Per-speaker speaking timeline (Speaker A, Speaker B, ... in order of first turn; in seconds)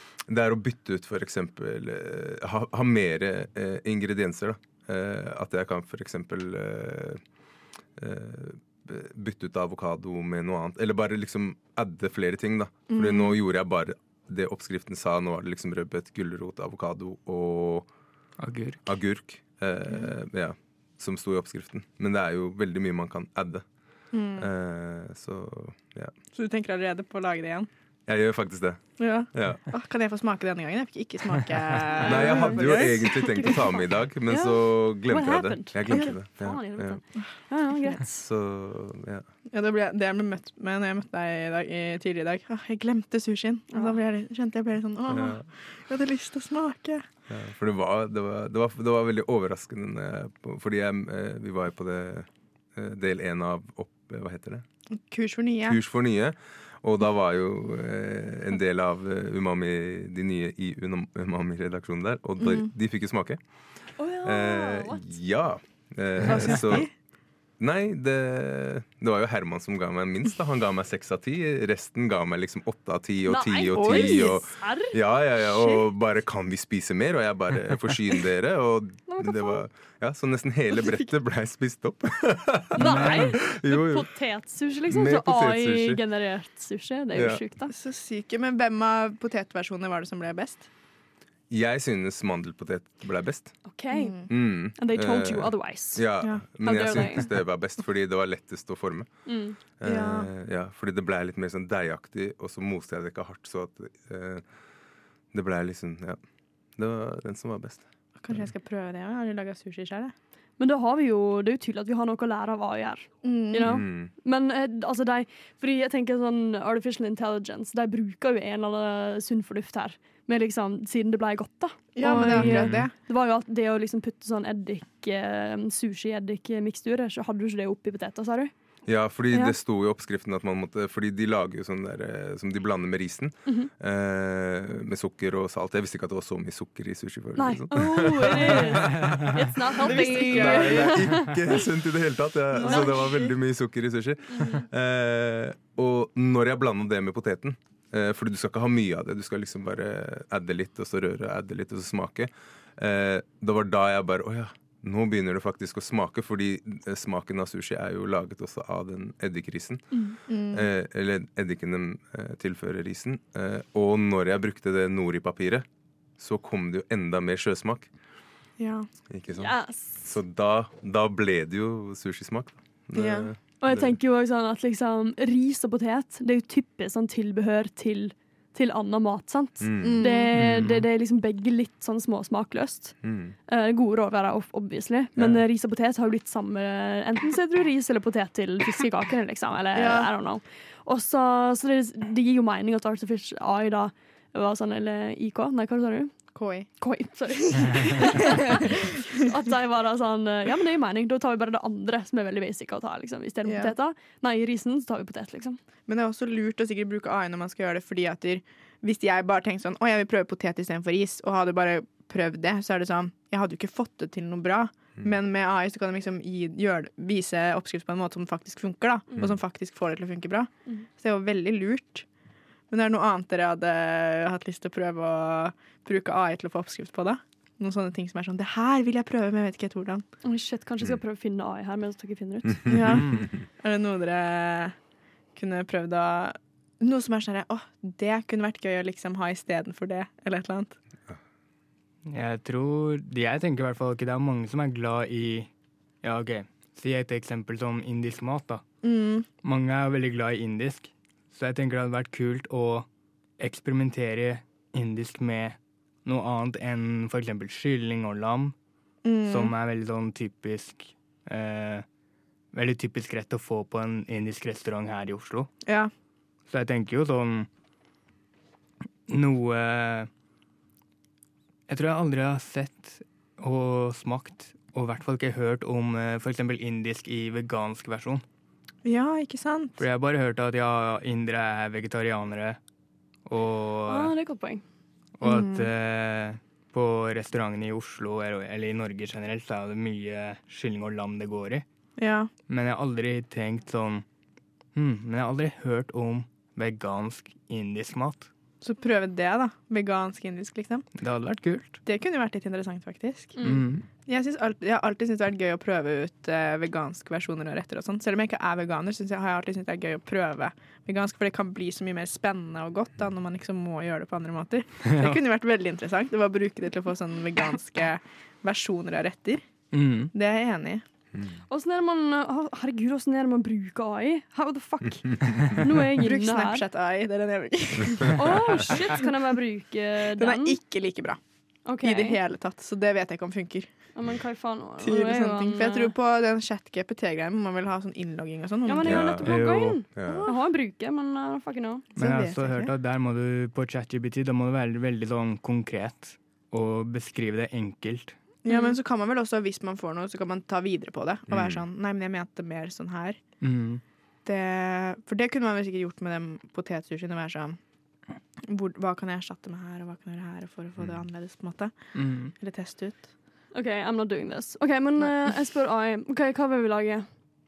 Speaker A: 0.3-7.2, 8.0-17.9, 18.9-23.6, 24.4-26.1, 28.1-29.6, 32.0-37.0, 38.0-39.2, 45.1-45.5, 47.3-54.6, 55.6-63.4, 64.2-66.9, 67.6-84.1, 84.9-86.0, 87.1-87.4, 91.5-93.5, 94.3-99.1, 99.8-104.4, 105.3-106.2, 106.8-108.5, 113.6-114.1, 128.8-159.8, 160.5-165.6, 166.2-167.9, 169.1-174.0, 179.6-180.0, 183.0-183.3, 185.2-185.4, 338.8-339.3, 339.9-340.3, 351.3-351.6, 360.8-361.0
Speaker B: 12.9-13.4, 24.1-24.5, 26.3-27.7, 29.0-33.6, 39.5-47.0, 54.9-55.8, 62.4-62.7, 66.3-66.9, 73.7-74.3, 87.7-90.7, 93.9-94.3, 99.8-100.3, 108.2-110.1, 113.2-113.8, 122.0-122.9, 139.8-141.1, 142.6-143.1, 160.3-160.7, 168.6-168.9, 172.9-173.3, 179.8-180.3, 189.7-190.1, 196.3-196.7, 197.7-198.6, 203.4-203.7, 205.9-222.0, 222.7-230.0, 232.7-234.7, 235.3-240.8, 248.8-249.2, 259.0-259.5, 265.6-265.9, 278.8-279.8, 285.2-285.7, 292.0-292.3, 298.6-300.9, 301.8-303.4, 303.9-319.4, 320.1-320.8, 325.9-329.1, 330.1-331.2, 331.8-333.9, 334.8-339.2, 340.0-340.4, 341.9-342.7, 348.4-353.2, 354.2-357.6, 358.5-361.7, 362.3-363.1
Speaker C: 18.4-18.8, 82.8-83.3, 122.2-122.8, 180.3-180.8, 232.9-233.2, 242.1-245.5, 246.0-248.6, 249.4-252.9, 253.4-258.5, 259.2-261.8, 262.5-265.5, 266.5-267.5, 269.1-270.1, 271.7-278.2, 279.8-282.6, 283.2-284.1, 285.2-291.6, 292.5-294.0, 294.7-298.3, 301.0-301.8, 303.4-303.8, 314.9-315.2, 319.7-320.1, 339.2-339.8, 341.9-348.2, 353.4-353.8, 361.9-362.3
Speaker D: 32.0-38.2, 43.7-44.0, 64.0-65.1, 73.2-75.9, 79.1-79.6, 82.7-87.7, 93.7-97.3, 99.2-99.6, 110.6-128.5, 129.3-129.6, 137.4-141.4, 142.6-143.3, 144.3-144.6, 159.9-160.2, 169.3-170.1, 173.6-183.0, 183.5-196.1, 196.8-205.6, 230.2-232.9, 283.9-284.6, 303.4-303.6, 321.5-326.6, 328.1-330.6, 331.6-332.2, 333.9-335.9, 338.6-341.9, 348.5-348.8, 363.5-367.1